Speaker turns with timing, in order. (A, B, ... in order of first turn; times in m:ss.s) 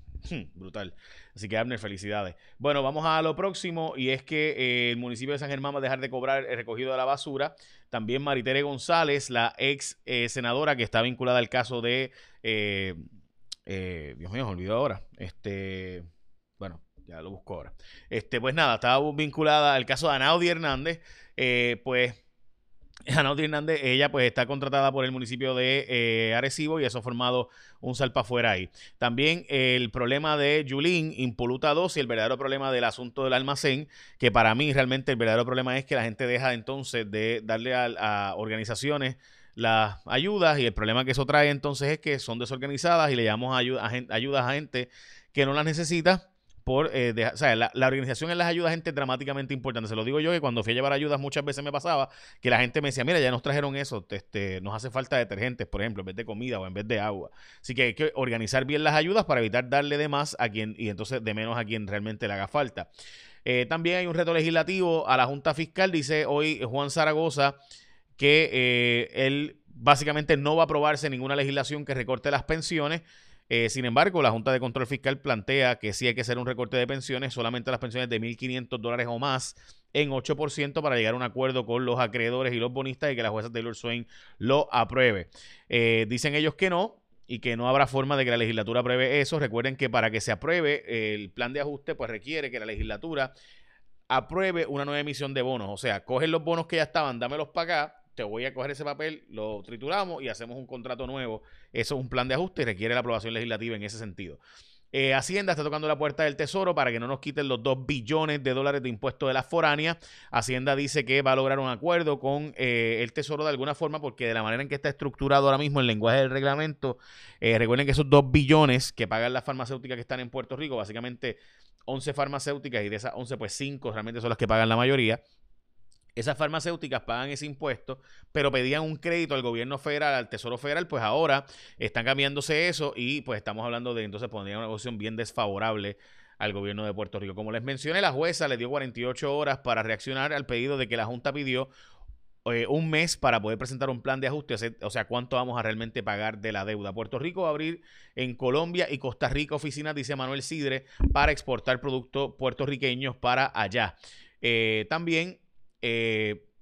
0:00.2-0:13.0 A
0:13.7-0:16.1 A
0:16.6-0:22.2 A
0:23.1-1:02.9 A
1:03.5-1:07.6 A
1:08.2-1:33.3 A
1:34.1-1:44.4 A
1:44.9-2:05.2 A
2:06.2-2:21.7 A
2:22.5-2:36.4 A